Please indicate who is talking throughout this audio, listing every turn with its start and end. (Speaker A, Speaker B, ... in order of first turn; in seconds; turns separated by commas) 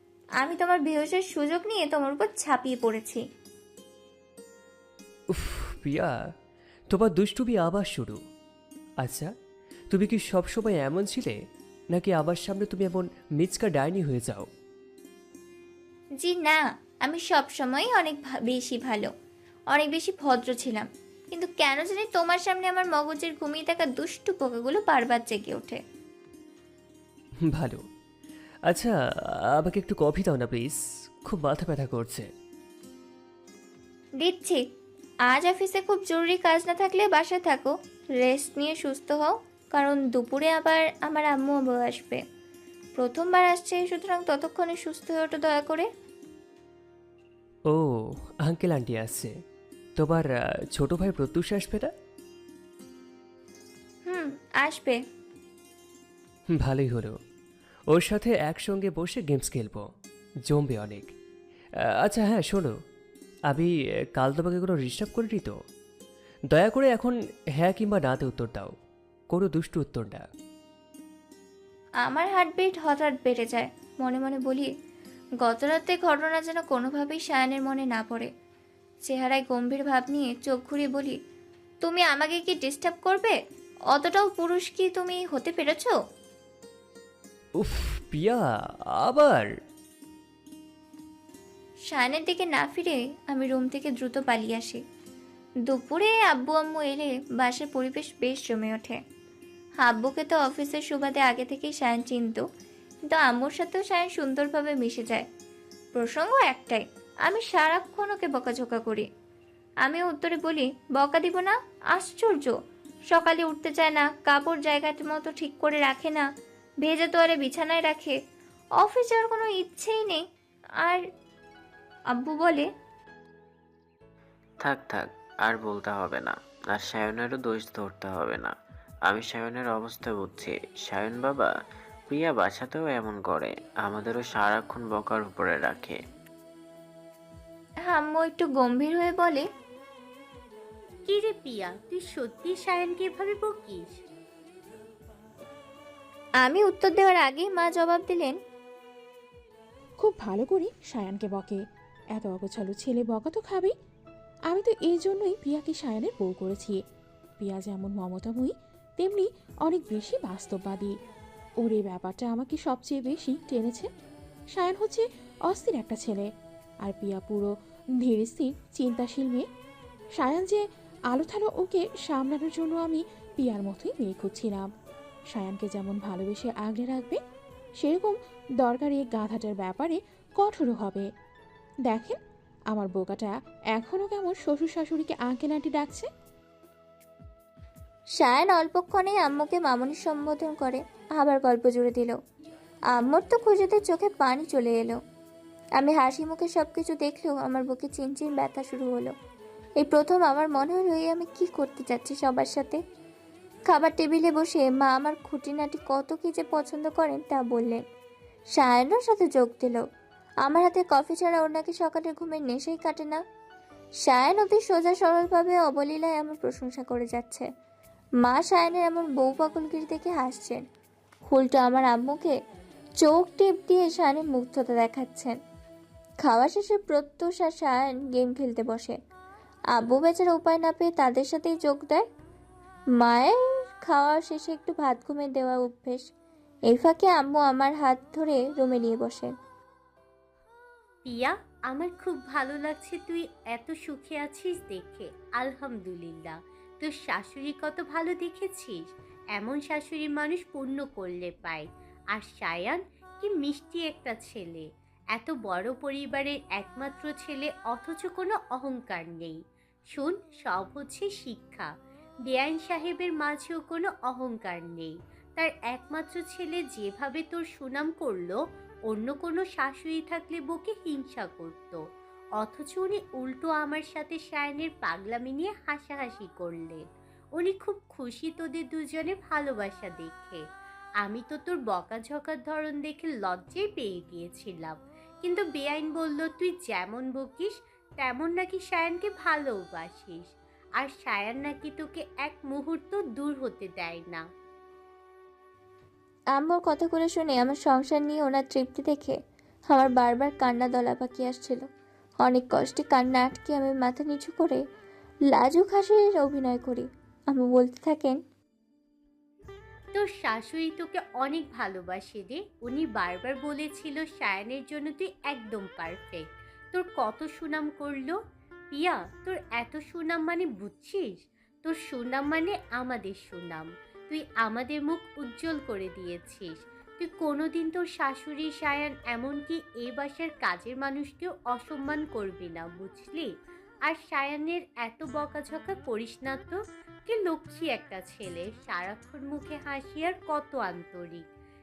Speaker A: 0.4-3.2, Speaker B: 5.3-6.2, Speaker B: 6.9-8.2, Speaker B: 9.0-9.3, Speaker B: 9.9-11.4, Speaker B: 11.9-14.5, Speaker A: 16.2-19.1, Speaker A: 19.7-25.8, Speaker B: 27.5-27.8, Speaker B: 28.7-28.9, Speaker B: 29.6-32.3, Speaker A: 34.2-34.6, Speaker A: 35.3-42.2, Speaker A: 43.0-45.9, Speaker B: 47.7-49.4, Speaker B: 50.0-51.9, Speaker A: 54.1-55.0, Speaker B: 56.5-57.2, Speaker B: 57.9-59.9, Speaker B: 60.5-61.1, Speaker B: 62.0-62.7, Speaker B: 63.5-65.5, Speaker B: 66.5-68.7, Speaker B: 69.3-70.2, Speaker A: 72.0-74.7, Speaker A: 75.4-78.3, Speaker A: 79.0-81.2, Speaker A: 81.8-83.3, Speaker A: 83.9-86.0, Speaker B: 87.6-88.4, Speaker B: 88.9-89.5, Speaker A: 91.9-94.8, Speaker A: 95.7-99.0, Speaker A: 99.8-102.5, Speaker A: 103.0-105.3, Speaker A: 105.9-109.0, Speaker A: 109.8-112.5, Speaker A: 113.1-116.2, Speaker A: 116.8-118.2, Speaker A: 118.8-120.2, Speaker A: 122.1-122.7, Speaker C: 124.6-128.5, Speaker C: 129.1-131.5, Speaker C: 132.1-136.0, Speaker A: 137.9-139.4, Speaker D: 141.1-144.0, Speaker A: 146.4-148.4, Speaker E: 150.0-151.6, Speaker E: 152.2-153.7, Speaker E: 154.5-156.8, Speaker E: 157.4-160.9, Speaker E: 161.6-163.9, Speaker E: 164.5-166.3, Speaker E: 166.8-169.4, Speaker E: 170.2-174.7, Speaker E: 175.3-177.2, Speaker E: 177.8-181.1, Speaker E: 181.9-182.2, Speaker E: 182.7-186.1, Speaker A: 188.2-192.2, Speaker A: 192.9-195.0, Speaker A: 195.8-199.1, Speaker A: 199.8-202.8, Speaker A: 203.7-207.8, Speaker A: 208.6-209.8, Speaker A: 210.4-213.2, Speaker A: 214.1-217.5, Speaker A: 218.2-220.6, Speaker A: 221.3-222.3, Speaker A: 223.0-225.3, Speaker A: 226.2-229.0, Speaker A: 229.7-232.1, Speaker A: 233.0-236.1, Speaker A: 236.7-239.3, Speaker D: 241.1-259.4, Speaker D: 259.9-261.7, Speaker D: 262.3-271.8, Speaker D: 272.4-276.8, Speaker D: 277.4-280.4, Speaker D: 281.0-290.3, Speaker D: 290.8-294.2, Speaker A: 296.3-299.2, Speaker A: 299.7-301.6, Speaker A: 302.2-304.6, Speaker A: 305.3-308.2, Speaker D: 309.9-318.2, Speaker D: 318.7-333.3, Speaker D: 333.9-341.2